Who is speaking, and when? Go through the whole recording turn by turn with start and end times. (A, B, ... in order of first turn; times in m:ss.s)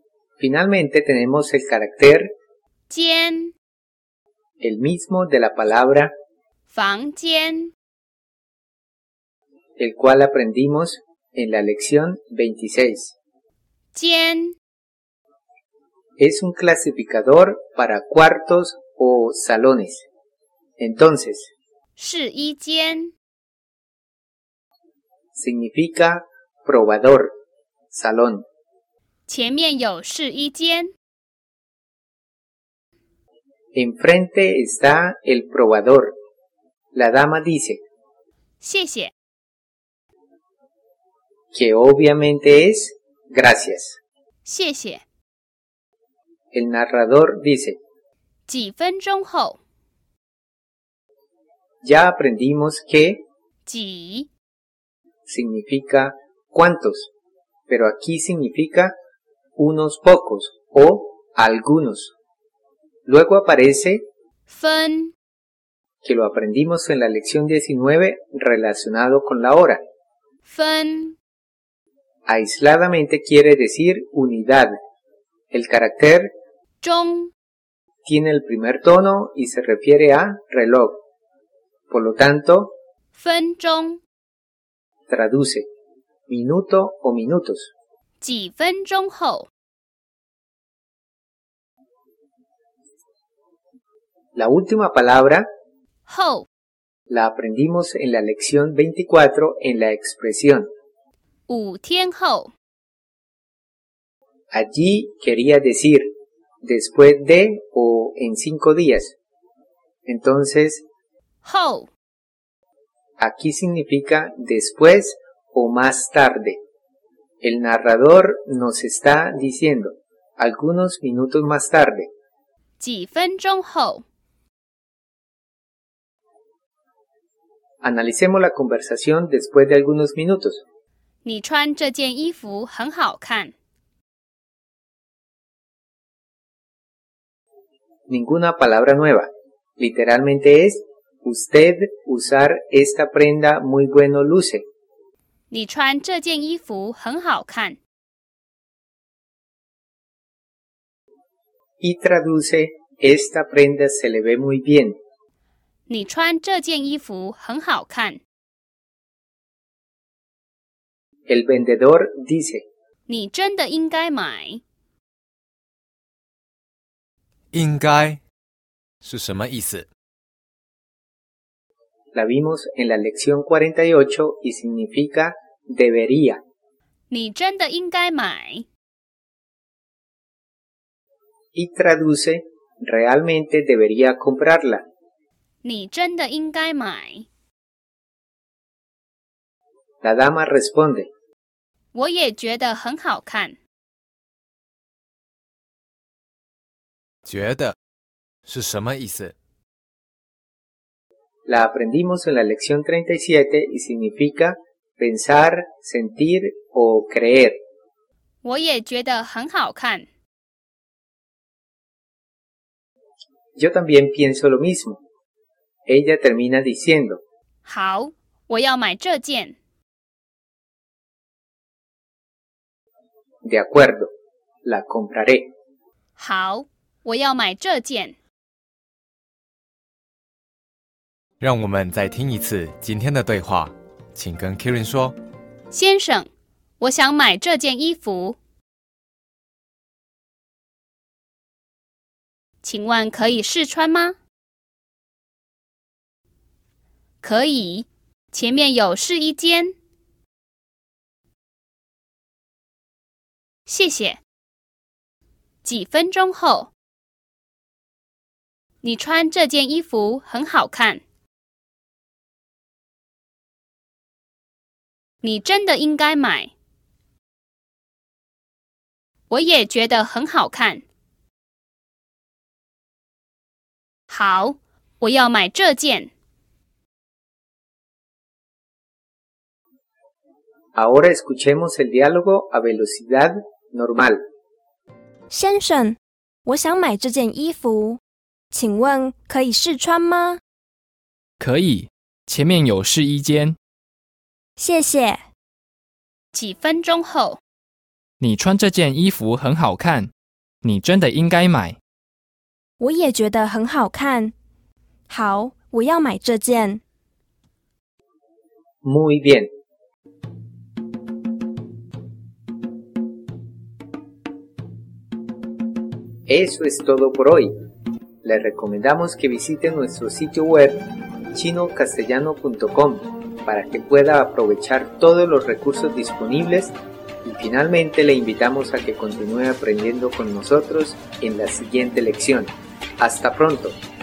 0:00.4-0:02.3 A
0:02.9-0:03.5 B
0:04.6-0:06.1 A
0:06.7-0:07.7 B
0:09.8-0:13.2 A
0:14.0-0:14.6 B
0:16.2-0:20.1 A
0:20.8-0:21.5 A
0:22.0-0:23.1 B
0:25.4-0:27.3 A
0:27.9-0:28.4 A
0:29.3-0:30.9 B
0:33.7-0:36.1 A
0:36.9-0:37.8 A
0:38.6-0:39.1 B
0:41.5-0:44.0 A
0:44.4-0:45.0 B
0:46.5-0:47.8 A
0:48.5-0:49.6 B
0:51.8-0:53.2 A
0:53.7-0:54.3 B
0:55.3-0:57.1 A
0:57.7-0:59.0 A
0:59.6-1:02.1 A
1:03.1-1:04.1 A
1:04.5-1:05.1 B
1:06.0-1:09.8 A
1:10.4-1:11.2 B
1:12.3-1:14.8 A
1:15.5-1:16.3 A
1:16.8-1:17.3 B
1:18.0-1:21.0 A
1:21.9-1:22.8 A
1:23.2-1:24.0 B
1:25.1-1:25.7 A
1:26.3-1:27.7 A
1:28.2-1:29.5 B
1:34.4-1:35.5 A
1:36.1-1:36.5 B
1:37.1-1:40.7 A
1:41.5-1:42.5 B
1:44.5-1:46.1 A
1:46.6-1:49.2 A
1:50.1-1:50.8 A
1:51.4-1:51.9 B
1:53.2-1:56.6 A
1:57.4-2:02.1 A
2:02.8-2:04.0 B
2:07.8-2:10.6 A
2:11.2-2:13.5 B
2:18.1-2:24.6 A
2:25.5-2:27.8 B
2:31.8-2:35.0 A
2:35.9-2:38.2 B
2:41.3-2:42.7 A
2:43.1-2:44.6 B
2:47.5-2:48.2 C
2:49.0-2:49.9 C
2:52.1-2:56.4 A
2:57.1-2:58.7 B
3:01.6-3:04.8 A
3:05.6-3:07.3 B
3:10.0-3:11.1 A
3:11.9-3:13.6 B
3:17.3-3:17.8 C
3:18.5-3:19.4 C
3:21.5-3:27.6 A
3:28.4-3:30.1 B
3:33.6-3:35.0 A
3:35.9-3:37.2 A
3:37.7-3:39.6 B
3:43.4-3:44.1 A
3:44.6-3:45.5 A
3:46.2-3:48.2 B
3:51.4-3:55.2 C
3:55.7-3:56.3 B
3:56.8-3:58.4 B
4:02.6-4:04.2 B
4:07.2-4:09.7 B
4:13.7-4:14.2 B
4:15.6-4:16.7 B
4:18.8-4:21.0 B
4:25.2-4:26.5 B
4:29.3-4:30.8 B
4:34.1-4:36.1 B
4:40.8-4:44.2 A
4:45.3-4:48.0 D
4:48.5-4:50.4 D
4:51.4-4:53.6 E
4:54.6-4:55.2 D
4:56.3-4:57.4 B
4:58.2-5:00.1 E
5:00.6-5:01.8 E
5:02.8-5:04.3 D
5:05.1-5:06.8 D
5:08.8-5:09.5 A
5:16.3-5:17.5 A
5:18.2-5:33.8 A